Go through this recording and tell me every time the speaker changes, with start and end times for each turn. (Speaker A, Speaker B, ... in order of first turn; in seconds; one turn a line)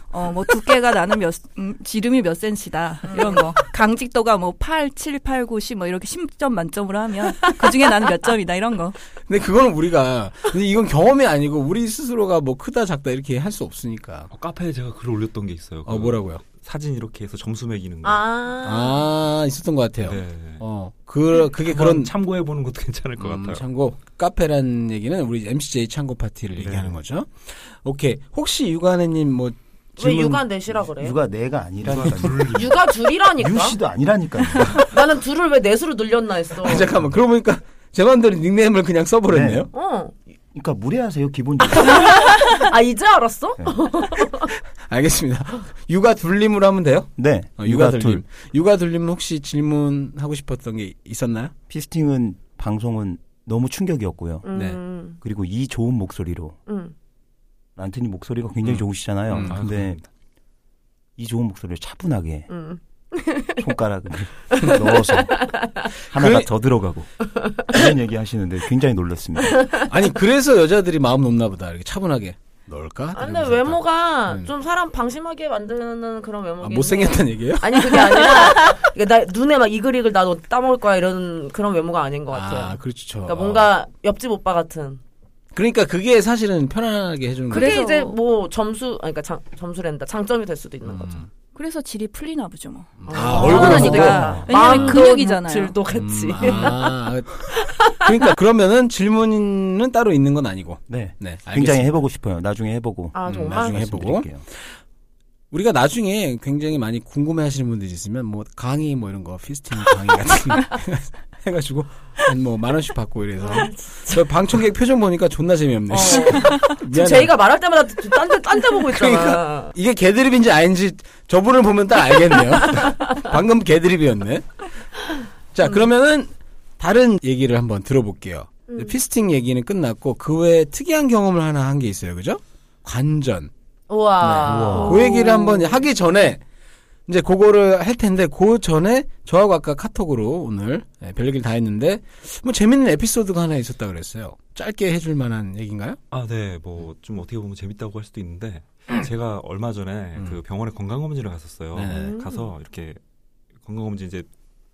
Speaker A: 0.1-9.0
Speaker B: 3.1-3.4
Speaker C: 9.3-14.3
Speaker D: 14.3-18.2
Speaker C: 15.8-16.4
Speaker B: 18.0-19.1
Speaker C: 18.6-22.1
Speaker D: 20.0-20.6
Speaker D: 21.5-23.6
Speaker C: 23.2-30.4
Speaker D: 26.6-27.0
Speaker B: 30.0-31.2
Speaker E: 30.9-32.7
Speaker D: 31.8-32.9
Speaker B: 32.5-33.8
Speaker E: 33.4-34.9
Speaker B: 34.7-36.9
Speaker C: 36.6-39.7
Speaker E: 39.3-39.7
Speaker B: 39.7-40.1
Speaker E: 40.5-42.1
Speaker B: 41.7-44.5
Speaker C: 44.8-51.5
Speaker E: 47.2-48.2
Speaker E: 51.7-54.4
Speaker B: 54.4-55.2
Speaker C: 54.5-54.8
Speaker E: 55.2-56.6
Speaker B: 56.7-56.9
Speaker E: 57.8-60.0
Speaker D: 58.6-60.1
Speaker C: 59.3-59.6
Speaker E: 61.2-62.5
Speaker B: 62.5-63.6
Speaker E: 63.6-69.8
Speaker B: 64.5-65.9
Speaker C: 66.1-66.5
Speaker B: 67.4-67.8
Speaker B: 69.5-69.8
Speaker C: 69.9-74.5
Speaker B: 73.1-85.0
Speaker C: 76.6-78.4
Speaker C: 82.3-83.7
Speaker C: 85.5-87.8
Speaker B: 87.5-91.2
Speaker A: 87.5-88.2
Speaker C: 90.8-91.3
Speaker A: 91.5-95.8
Speaker C: 93.0-95.0
Speaker B: 93.1-98.3
Speaker E: 93.4-94.5
Speaker C: 95.9-102.0
Speaker E: 100.9-104.4
Speaker B: 103.1-103.8
Speaker C: 103.2-104.8
Speaker C: 105.5-117.3
Speaker B: 113.4-114.3
Speaker B: 115.9-119.7
Speaker C: 118.9-124.6
Speaker B: 122.7-123.1
Speaker C: 125.5-133.5
Speaker B: 128.7-129.0
Speaker B: 133.9-135.8
Speaker C: 134.2-136.4
Speaker E: 134.4-135.2
Speaker C: 137.1-146.0
Speaker D: 146.1-153.0
Speaker C: 151.7-152.2
Speaker B: 151.9-152.5
Speaker D: 153.6-154.3